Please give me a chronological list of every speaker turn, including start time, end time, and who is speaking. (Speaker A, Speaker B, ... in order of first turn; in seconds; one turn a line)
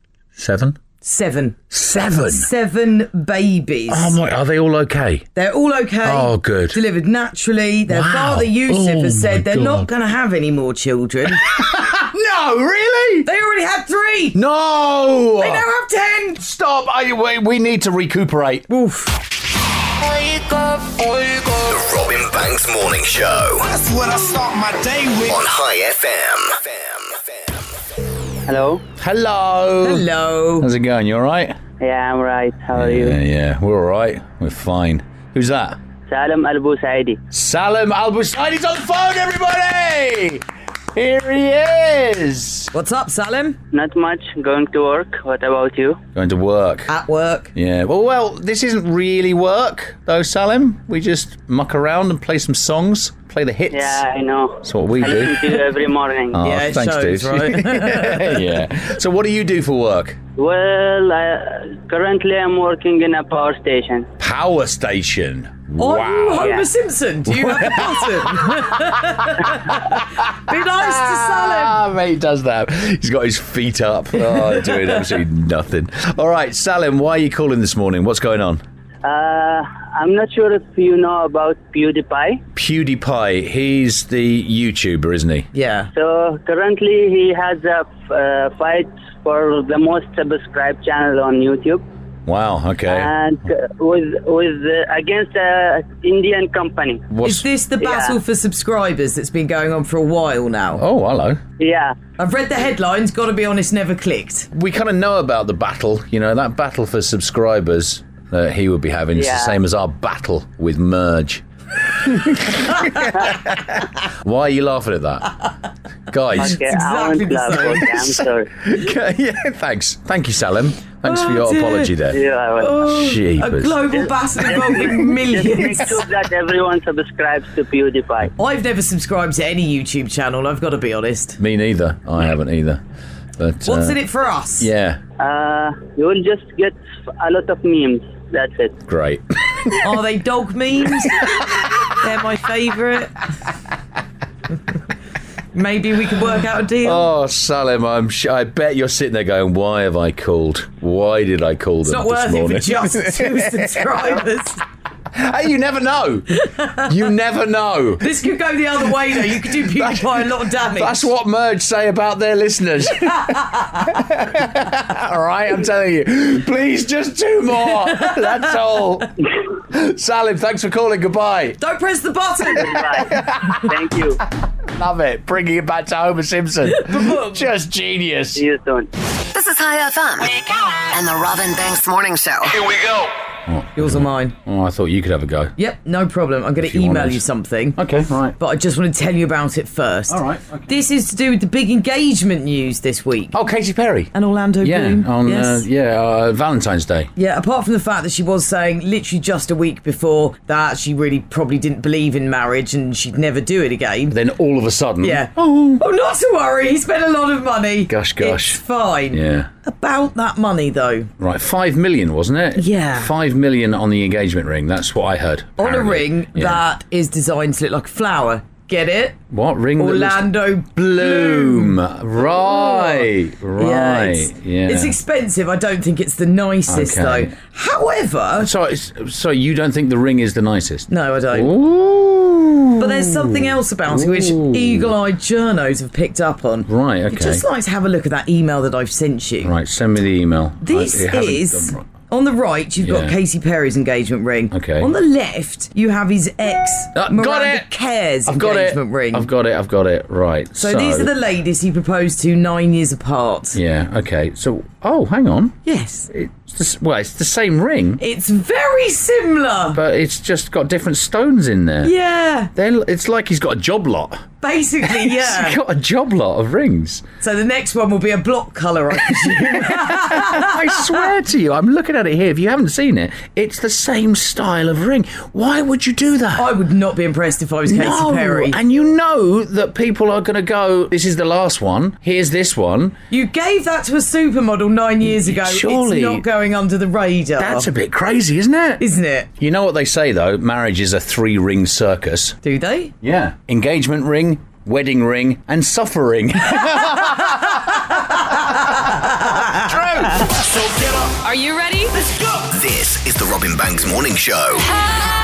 Speaker A: 0.3-0.8
Speaker B: 1.0-1.6
Speaker A: 1.7-2.5
Speaker B: 2.3-4.1
Speaker A: 3.9-5.3
Speaker B: 5.3-11.4
Speaker A: 6.0-6.8
Speaker A: 7.9-9.9
Speaker A: 11.4-13.3
Speaker B: 13.2-14.4
Speaker A: 14.3-15.7
Speaker B: 15.4-16.4
Speaker A: 16.4-18.7
Speaker B: 18.7-19.1
Speaker C: 21.6-23.6
Speaker D: 23.7-25.4
Speaker C: 25.2-27.2
Speaker E: 28.5-28.8
Speaker A: 29.0-30.1
Speaker B: 29.8-30.7
Speaker A: 30.6-31.6
Speaker E: 31.8-33.2
Speaker A: 32.7-35.8
Speaker E: 36.1-37.2
Speaker A: 37.3-42.7
Speaker B: 42.7-43.6
Speaker E: 43.7-46.0
Speaker A: 46.1-46.9
Speaker B: 46.9-47.5
Speaker A: 47.5-54.0
Speaker E: 53.7-56.4
Speaker A: 54.6-55.6
Speaker A: 56.3-60.2
Speaker B: 56.4-58.5
Speaker E: 60.4-64.1
Speaker A: 64.2-66.6
Speaker B: 65.8-71.8
Speaker E: 66.4-66.6
Speaker A: 67.3-78.6
Speaker E: 79.0-82.4
Speaker A: 82.5-85.5
Speaker B: 85.5-85.9
Speaker E: 85.9-91.8
Speaker A: 92.2-93.1
Speaker E: 92.9-97.0
Speaker A: 97.1-97.4
Speaker B: 97.2-100.8
Speaker E: 97.8-98.2
Speaker A: 100.7-101.4
Speaker E: 101.6-102.0
Speaker B: 102.2-104.5
Speaker A: 104.5-111.4
Speaker E: 109.2-109.5
Speaker A: 112.0-115.3
Speaker B: 112.8-113.1
Speaker A: 116.1-116.6
Speaker E: 116.3-118.5
Speaker B: 116.4-117.9
Speaker A: 117.9-122.2
Speaker B: 121.0-121.9
Speaker E: 122.1-122.7
Speaker B: 122.6-126.0
Speaker A: 122.8-124.0
Speaker E: 124.4-128.3
Speaker B: 128.4-131.4
Speaker A: 131.4-132.8
Speaker A: 133.4-134.0
Speaker B: 133.7-134.7
Speaker A: 134.6-135.0
Speaker E: 135.2-138.7
Speaker A: 138.9-139.8
Speaker B: 139.8-141.3
Speaker B: 141.9-143.1
Speaker B: 145.5-147.1
Speaker A: 146.8-154.0
Speaker B: 151.8-154.6
Speaker A: 155.1-158.1
Speaker B: 156.4-156.8
Speaker B: 158.0-161.1
Speaker A: 159.5-169.1
Speaker B: 163.1-163.9
Speaker B: 167.9-168.3
Speaker A: 169.7-171.6
Speaker B: 171.6-172.8
Speaker E: 172.5-174.2
Speaker A: 173.0-173.6
Speaker A: 174.7-178.4
Speaker B: 176.7-177.4
Speaker E: 178.3-178.9
Speaker F: 179.3-182.6
Speaker A: 183.5-185.5
Speaker B: 183.8-184.3
Speaker B: 185.6-187.8
Speaker A: 186.6-187.2
Speaker A: 187.8-188.3
Speaker B: 188.4-193.3
Speaker A: 190.1-190.7
Speaker A: 193.3-197.1
Speaker B: 194.1-195.6
Speaker B: 197.2-204.2
Speaker A: 204.1-205.8
Speaker B: 205.0-211.1
Speaker A: 207.9-209.5
Speaker A: 211.2-216.6
Speaker B: 212.6-213.1
Speaker B: 215.6-219.2
Speaker A: 219.3-224.9
Speaker B: 219.8-228.5
Speaker A: 226.7-227.3
Speaker A: 228.4-234.9
Speaker B: 230.9-231.5
Speaker B: 232.8-239.5
Speaker A: 236.7-237.4
Speaker A: 239.4-241.8
Speaker B: 240.6-249.3
Speaker A: 242.8-243.2
Speaker A: 244.5-244.9
Speaker A: 246.9-247.7
Speaker A: 248.2-251.1
Speaker B: 250.6-253.6
Speaker A: 253.5-255.6
Speaker B: 255.6-256.1
Speaker A: 256.1-258.0
Speaker B: 258.0-259.8
Speaker A: 259.7-261.9
Speaker B: 261.8-262.5
Speaker A: 262.5-264.2
Speaker B: 264.4-265.6
Speaker A: 264.8-267.0
Speaker B: 267.2-271.1
Speaker A: 269.2-276.5
Speaker B: 276.4-278.6
Speaker A: 277.7-283.0
Speaker B: 283.1-287.7
Speaker A: 285.1-286.2
Speaker A: 287.4-288.8
Speaker B: 288.8-289.3
Speaker A: 289.4-292.4
Speaker B: 292.4-292.9
Speaker A: 293.0-298.1
Speaker B: 297.5-300.2
Speaker A: 299.1-300.4
Speaker D: 300.4-301.2
Speaker C: 302.5-304.7